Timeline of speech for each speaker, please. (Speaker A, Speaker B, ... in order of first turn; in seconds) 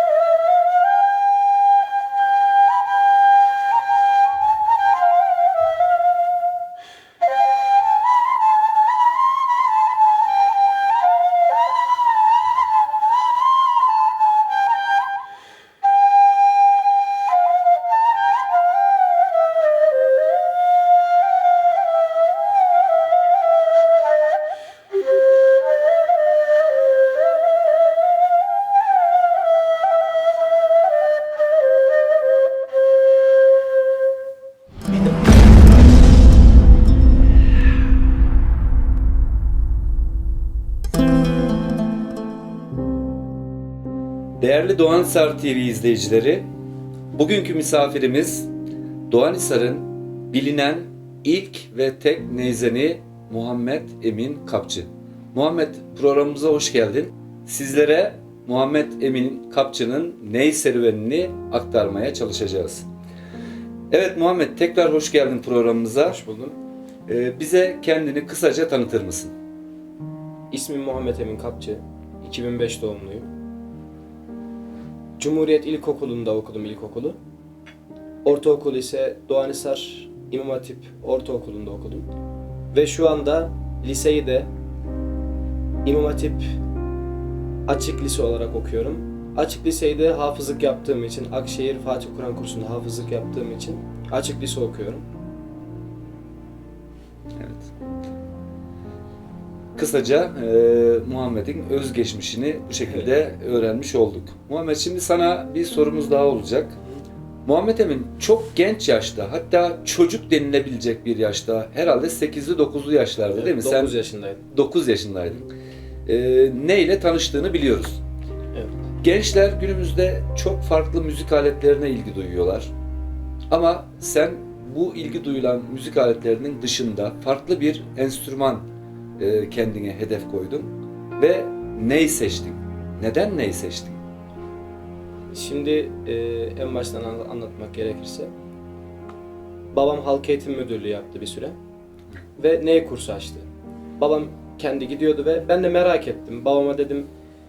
Speaker A: 44.4-46.5, 47.1-48.5, 49.1-62.9, 63.9-66.2, 67.1-69.3, 97.3-97.7, 99.8-106.8, 107.4-113.9, 114.5-115.4, 116.0-118.0, 119.0-122.7, 123.5-128.7, 129.2-134.0
Speaker B: 66.0-66.6, 70.5-73.3, 75.2-77.2, 78.2-82.1, 82.7-84.5, 85.8-86.4, 87.7-95.0, 102.8-103.1, 113.3-114.4, 118.5-118.8, 135.3-138.3, 139.7-141.6, 142.4-143.5, 144.0-147.1